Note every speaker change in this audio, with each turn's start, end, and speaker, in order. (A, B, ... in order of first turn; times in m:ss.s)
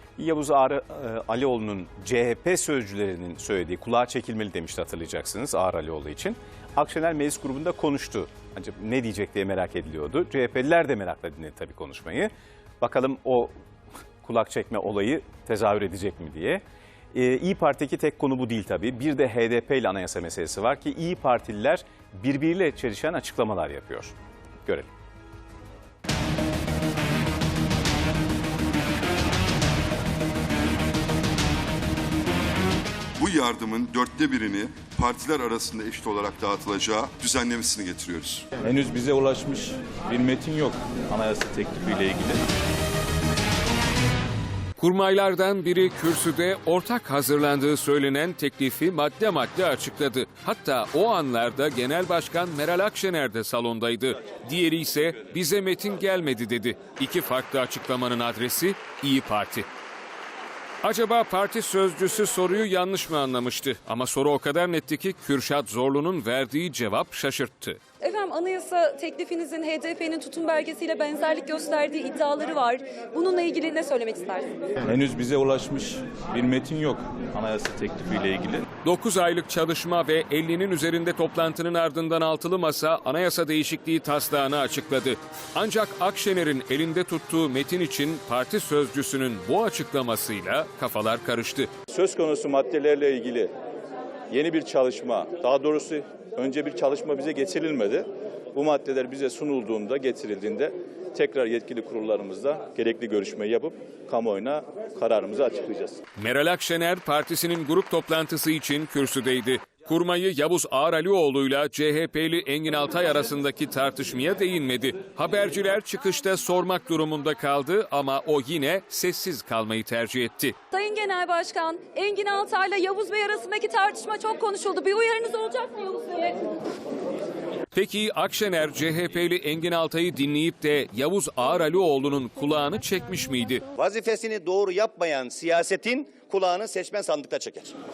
0:00.2-0:13.5 A
0:14.2-0:16.6 A
0:17.1-0:24.1 A
0:33.2-0:38.6 B
0:38.6-0:42.4 C
0:44.8-0:59.6 D
1:00.8-1:07.8 D
1:08.0-1:14.5 E
1:14.8-1:18.6 C
1:18.8-1:31.7 D
1:31.9-1:33.5 C
1:34.3-1:46.0 C
1:46.2-2:00.6 D
2:00.7-2:06.5 E
2:07.7-2:13.6 D
2:13.8-2:17.7 F